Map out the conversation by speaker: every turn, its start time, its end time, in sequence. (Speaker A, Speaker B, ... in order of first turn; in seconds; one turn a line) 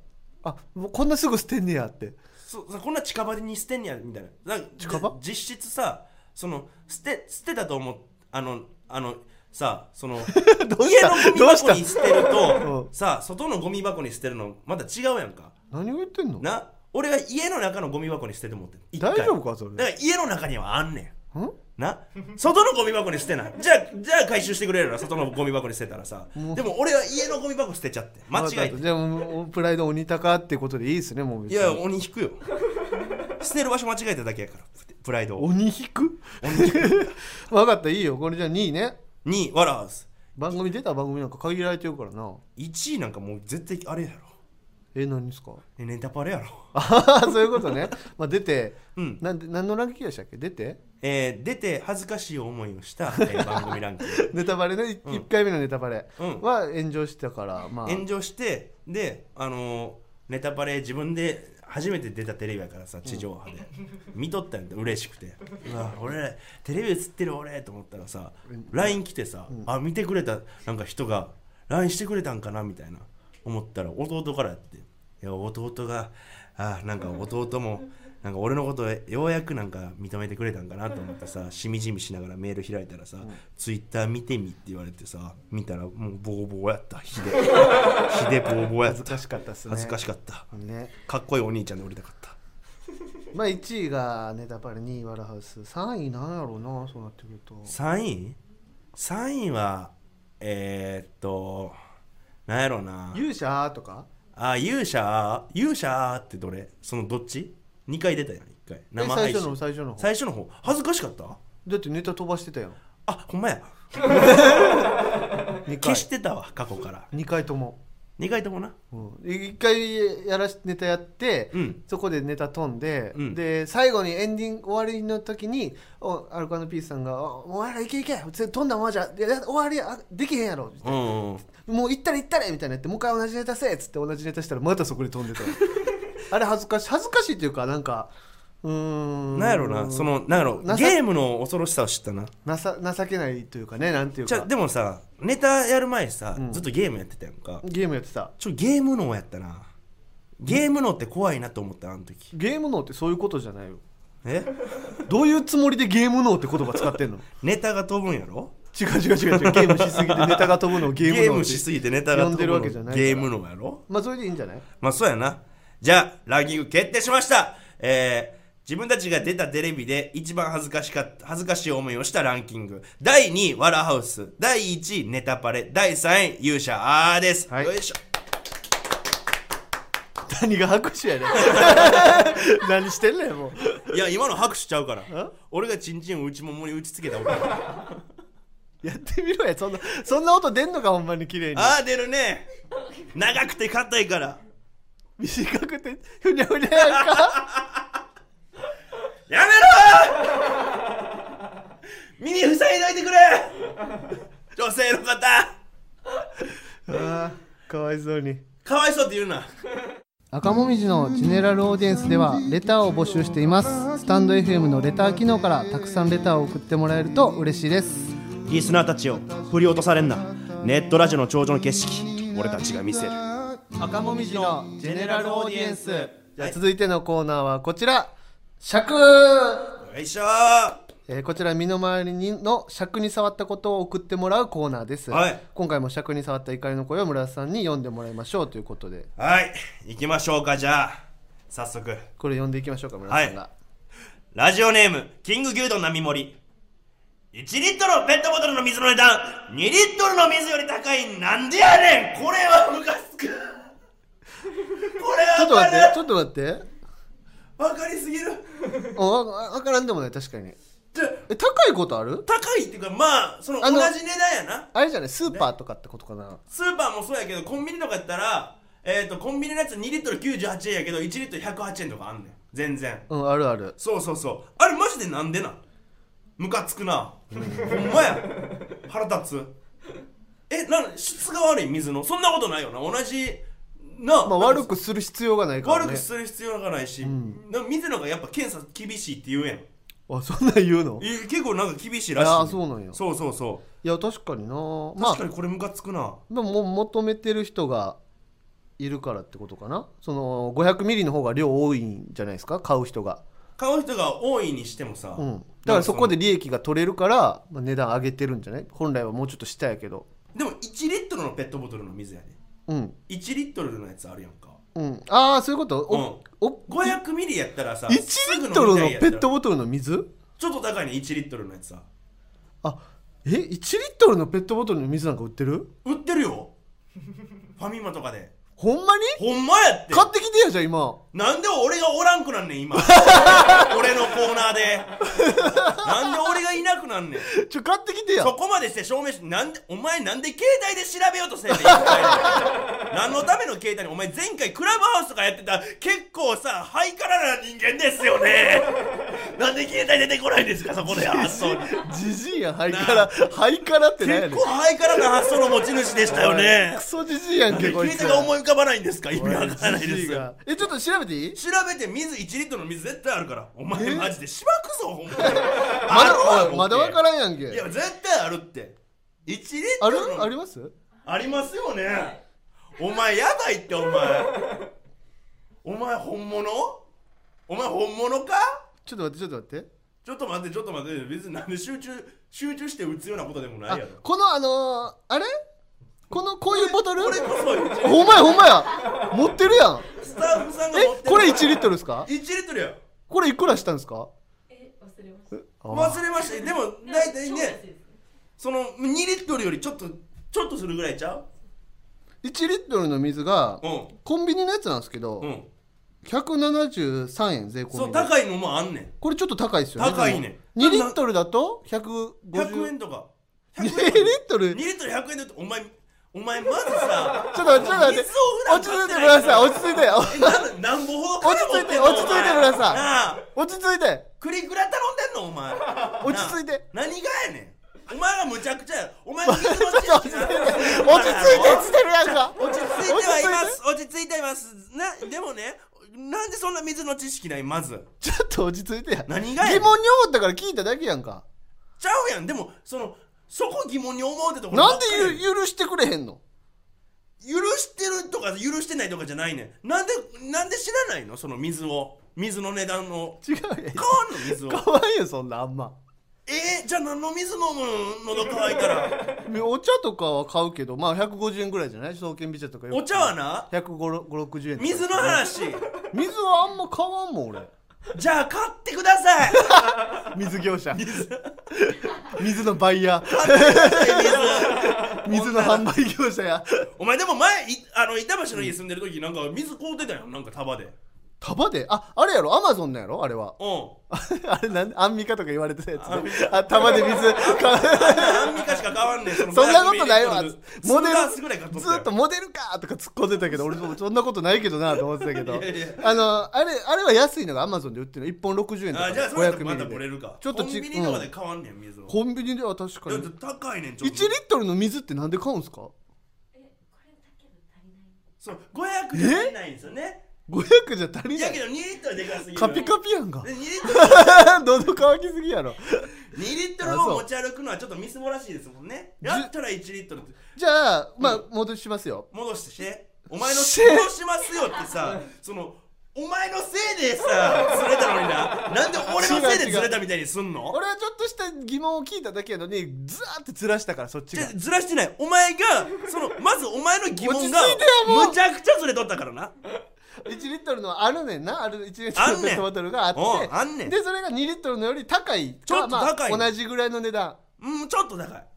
Speaker A: 0.4-2.2
Speaker B: 2.4-15.5
Speaker A: 4.8-5.1
Speaker A: 10.2-12.9
Speaker A: 15.7-16.4
Speaker B: 16.4-21.1
Speaker A: 19.0-19.9
Speaker B: 21.8-28.8
Speaker A: 26.4-26.6
Speaker A: 28.3-31.8
Speaker B: 31.5-32.4
Speaker B: 33.2-35.5
Speaker A: 35.4-39.0
Speaker B: 36.4-37.1
Speaker B: 39.2-40.1
Speaker A: 40.4-42.4
Speaker B: 42.5-44.3
Speaker A: 44.9-45.6
Speaker B: 45.8-46.7
Speaker A: 46.7-50.8
Speaker B: 49.0-49.2
Speaker B: 51.0-54.3
Speaker A: 53.1-58.0
Speaker B: 56.2-56.4
Speaker B: 57.8-90.5
Speaker A: 68.5-68.9
Speaker A: 88.8-90.0
Speaker A: 90.5-90.9
Speaker B: 91.0-92.4
Speaker A: 93.3-97.7
Speaker B: 97.7-98.4
Speaker B: 98.9-101.8
Speaker B: 102.5-103.2
Speaker A: 103.1-104.1
Speaker B: 104.3-111.4
Speaker A: 109.0-110.1
Speaker A: 111.6-112.8
Speaker B: 113.0-114.8
Speaker A: 114.1-114.9
Speaker A: 115.7-116.1
Speaker B: 115.8-117.1
Speaker A: 117.1-117.8
Speaker B: 118.2-118.8
Speaker A: 118.9-135.7
Speaker B: 121.5-121.8
Speaker B: 130.8-131.4
Speaker A: 136.2-138.1
Speaker A: 138.6-141.0
Speaker B: 139.3-142.3
Speaker A: 142.4-144.5
Speaker B: 144.2-147.6
Speaker A: 146.3-146.7
Speaker A: 147.6-148.3
Speaker B: 148.4-149.7
Speaker B: 150.4-152.3
Speaker A: 152.3-153.8
Speaker B: 154.2-155.0
Speaker A: 155.1-157.2
Speaker B: 157.3-158.5
Speaker A: 158.7-163.3
Speaker B: 159.2-163.8
Speaker A: 163.9-164.6
Speaker B: 164.8-178.0
Speaker A: 180.3-183.9
Speaker B: 181.4-182.2
Speaker B: 183.9-188.0
Speaker A: 188.8-191.8
Speaker B: 191.5-192.5
Speaker B: 193.1-194.4
Speaker A: 195.2-197.4
Speaker B: 196.8-197.8
Speaker B: 199.3-200.7
Speaker B: 202.2-203.6
Speaker B: 204.5-205.5
Speaker A: 206.9-208.4
Speaker B: 208.6-209.5
Speaker A: 210.3-218.4
Speaker B: 218.4-223.2
Speaker A: 223.8-229.8
Speaker B: 223.8-226.5
Speaker B: 229.8-230.8
Speaker A: 231.1-239.1
Speaker B: 235.1-235.4
Speaker B: 239.2-242.1
Speaker A: 242.2-243.5
Speaker B: 243.1-243.3
Speaker B: 244.3-246.4
Speaker B: 247.3-253.7
Speaker B: 254.8-256.0
Speaker A: 255.3-256.6
Speaker B: 257.6-258.4
Speaker A: 258.9-260.6
Speaker B: 260.9-261.2
Speaker A: 261.3-262.2
Speaker B: 262.2-264.7
Speaker A: 263.6-263.9
Speaker A: 264.7-266.4
Speaker B: 266.5-273.1
Speaker A: 273.1-273.8
Speaker B: 273.8-275.6
Speaker B: 276.4-279.5
Speaker A: 277.3-277.7
Speaker B: 280.5-284.6
Speaker A: 284.2-286.1
Speaker B: 285.6-289.7
Speaker A: 287.0-287.4
Speaker A: 290.1-291.1
Speaker B: 291.0-293.6
Speaker A: 292.1-293.0
Speaker A: 293.8-295.2
Speaker B: 294.9-296.2
Speaker A: 296.3-298.0
Speaker A: 298.8-303.2
Speaker B: 303.6-306.1
Speaker A: 305.2-310.1
Speaker B: 310.3-312.4
Speaker A: 312.7-312.9
Speaker B: 313.1-314.6
Speaker A: 314.7-316.9
Speaker B: 315.9-319.3
Speaker A: 317.9-320.1
Speaker B: 320.4-321.9
Speaker A: 322.6-325.7
Speaker B: 325.8-326.5
Speaker B: 327.6-328.3
Speaker A: 328.6-329.2
Speaker B: 329.1-330.1
Speaker A: 329.9-331.0
Speaker B: 331.1-337.3
Speaker A: 332.8-333.7
Speaker A: 335.1-336.3
Speaker A: 337.2-338.3
Speaker B: 338.2-351.8
Speaker A: 341.6-342.5
Speaker A: 350.9-354.4
Speaker B: 352.7-353.1
Speaker B: 354.0-356.8
Speaker A: 356.1-358.3
Speaker B: 357.5-360.3
Speaker A: 359.1-361.4
Speaker B: 361.3-370.3
Speaker A: 363.7-364.1
Speaker A: 365.1-367.6
Speaker A: 369.8-370.7
Speaker B: 371.0-372.2
Speaker B: 372.8-374.4
Speaker B: 375.6-376.8
Speaker B: 377.5-378.6
Speaker A: 378.8-379.7
Speaker B: 380.0-384.0
Speaker A: 383.7-385.3
Speaker A: 386.1-387.2
Speaker B: 386.5-388.5
Speaker A: 387.8-389.9
Speaker B: 389.9-392.8
Speaker A: 390.7-392.1
Speaker A: 393.1-394.1
Speaker C: 394.5-395.3
Speaker A: 395.5-396.0
Speaker B: 395.7-397.6
Speaker C: 396.1-398.0
Speaker B: 398.4-401.2
Speaker A: 402.2-405.3
Speaker B: 403.6-403.9
Speaker B: 405.2-405.5
Speaker A: 406.0-408.1
Speaker B: 407.7-408.9
Speaker A: 409.0-412.7
Speaker B: 409.8-410.9
Speaker B: 412.3-423.2
Speaker A: 413.6-414.6
Speaker A: 417.3-420.5
Speaker A: 421.2-424.1
Speaker B: 424.2-437.9
Speaker A: 426.0-426.6
Speaker A: 429.2-433.6
Speaker A: 438.0-441.2
Speaker B: 439.1-439.7
Speaker B: 441.8-445.2
Speaker A: 444.5-446.2
Speaker B: 447.2-453.2
Speaker A: 453.2-455.8
Speaker B: 453.7-454.6
Speaker B: 456.2-459.0
Speaker A: 459.2-465.3
Speaker B: 462.7-463.5
Speaker B: 464.6-465.7
Speaker A: 465.8-467.5
Speaker B: 467.9-469.6
Speaker A: 469.3-476.7
Speaker B: 470.7-471.3
Speaker B: 473.0-475.7
Speaker B: 476.8-480.8
Speaker A: 481.2-483.4
Speaker B: 483.4-483.8
Speaker A: 483.9-488.5
Speaker B: 485.8-491.9
Speaker A: 489.1-501.1
Speaker B: 495.0-496.1
Speaker B: 498.7-501.9
Speaker A: 501.9-503.1
Speaker B: 502.9-504.1
Speaker A: 503.8-505.7
Speaker C: 506.3-508.0
Speaker B: 508.2-510.0
Speaker A: 508.9-509.3
Speaker A: 510.3-511.4
Speaker B: 511.1-514.4
Speaker A: 512.3-516.1
Speaker B: 516.0-520.2
Speaker A: 516.6-517.0
Speaker A: 519.0-519.3
Speaker A: 520.3-522.1
Speaker B: 522.1-530.6
Speaker A: 523.2-523.9
Speaker A: 528.9-529.7
Speaker A: 530.5-534.3
Speaker B: 534.1-539.3
Speaker A: 537.0-538.2
Speaker A: 540.0-547.2
Speaker B: 541.9-543.7
Speaker B: 545.5-546.3
Speaker B: 547.4-548.3